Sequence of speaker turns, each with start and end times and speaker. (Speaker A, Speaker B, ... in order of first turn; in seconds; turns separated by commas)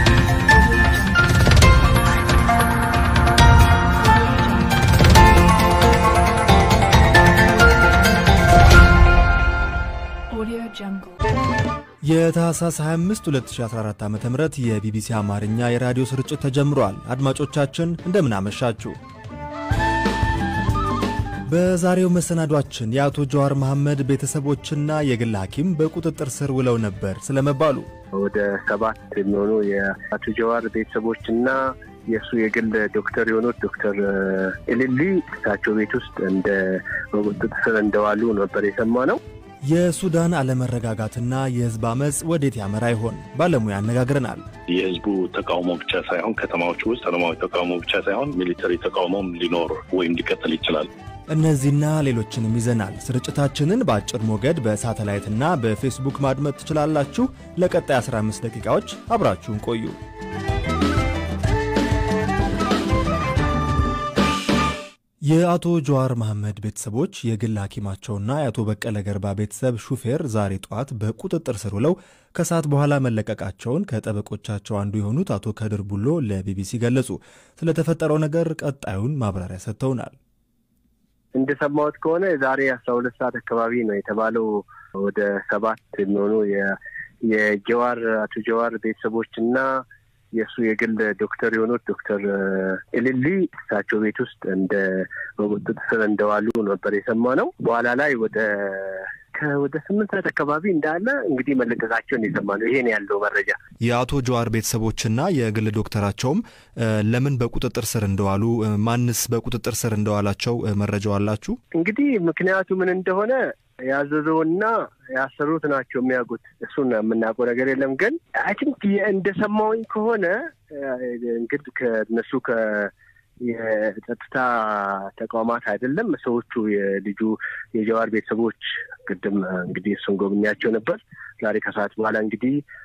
Speaker A: 0.5-1.4, Speaker A: 4.0-4.8, Speaker A: 10.3-11.2, Speaker B: 12.0-19.0, Speaker B: 21.5-27.9, Speaker C: 28.2-39.2, Speaker B: 39.7-44.4, Speaker D: 44.7-50.9, Speaker B: 51.3-60.0, Speaker B: 65.3-80.2, Speaker C: 81.3-103.6, Speaker B: 103.8-111.6, Speaker C: 111.7-132.6